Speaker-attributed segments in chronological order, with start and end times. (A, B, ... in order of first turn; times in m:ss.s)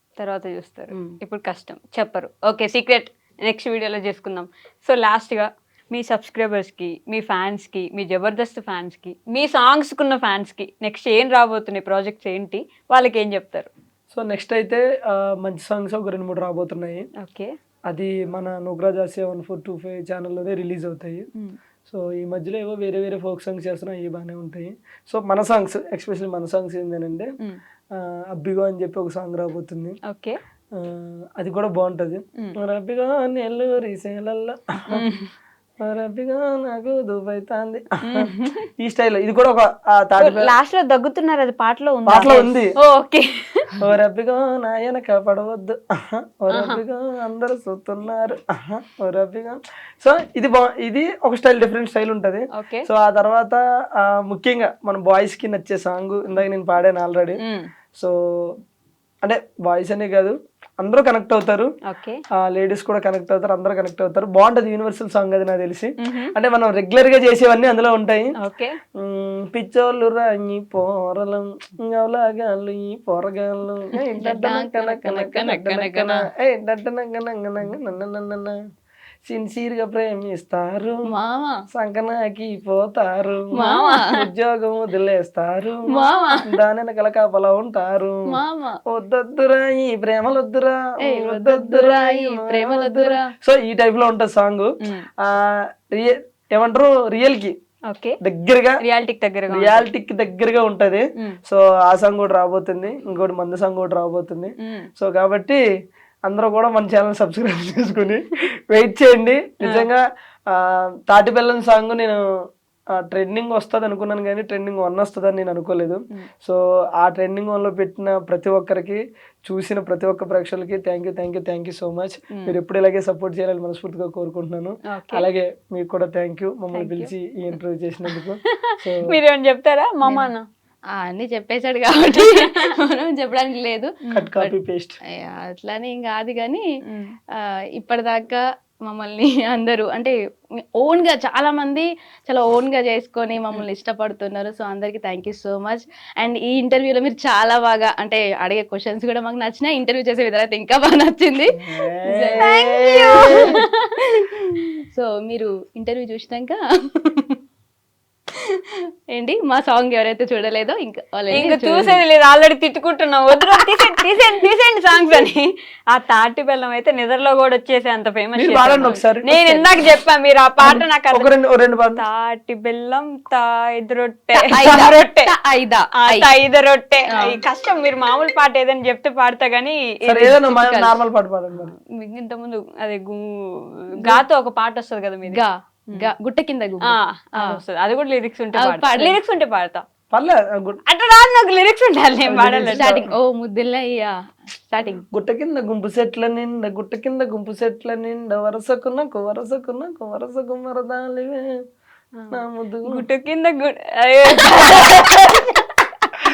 0:00.2-0:13.7 A
0:14.1-0:17.1 B
0:17.2-0:17.5 A
0:17.9-0:21.3 B
0:21.9-0:27.3 B
0:27.9-0:30.0 B
0:30.1-0:30.4 A
0:30.7-0:35.0 B
0:34.9-0:35.3 A
0:35.8-0:40.5 B
0:38.0-0:38.7 A
0:40.2-0:43.8 A
0:42.1-0:42.7 B
0:43.8-0:57.4 B
0:46.5-0:46.8 A
0:52.6-0:52.8 A
0:57.4-0:57.7 A
0:58.0-0:58.6 B
0:59.2-1:01.7 B
1:01.9-1:02.2 A
1:02.4-1:08.4 B
1:06.0-1:06.3 A
1:08.4-1:08.8 A
1:09.0-1:18.6 B
1:14.2-1:16.2 C
1:19.2-1:21.0 B
1:21.1-1:21.6 C
1:21.7-1:25.9 B
1:23.6-1:24.2 C
1:23.6-1:24.2 A
1:25.9-1:26.5 C
1:25.9-1:26.4 A
1:26.4-1:37.6 B
1:28.3-1:28.8 C
1:31.0-1:33.3 C
1:34.8-1:35.1 A
1:37.9-1:38.2 A
1:38.2-1:38.8 B
1:38.8-1:39.9 A
1:39.5-1:45.6 B
1:44.6-1:44.9 A
1:46.3-1:52.2 B
1:53.0-2:09.1 B
2:04.9-2:05.3 A
2:06.8-2:07.1 A
2:08.1-2:10.5 A
2:10.0-2:10.3 C
2:11.0-2:14.5 C
2:12.1-2:12.7 A
2:14.1-2:15.0 B
2:15.1-2:16.6 C
2:16.9-2:17.2 A
2:17.4-2:20.2 C
2:20.8-2:32.5 C
2:31.5-2:33.6 B
2:32.4-2:33.9 A
2:33.1-2:33.4 C
2:34.4-2:37.4 C
2:39.2-2:42.0 C
2:41.3-2:51.3 A
2:43.4-2:44.0 C
2:48.4-2:49.7 B
2:50.6-2:52.0 B
2:52.0-2:55.3 A
2:54.4-2:56.3 C
2:55.9-3:00.3 A
2:57.1-2:57.4 C
3:00.0-3:01.7 B
3:00.2-3:01.0 C
3:01.6-3:03.2 A
3:04.0-3:05.4 A
3:05.3-3:07.6 C
3:06.8-3:09.8 A
3:08.6-3:09.2 C
3:10.1-3:10.8 B
3:10.9-3:12.9 A
3:12.2-3:13.1 B
3:12.7-3:15.0 C
3:15.1-3:21.5 B
3:22.3-3:23.0 B
3:22.9-3:26.1 A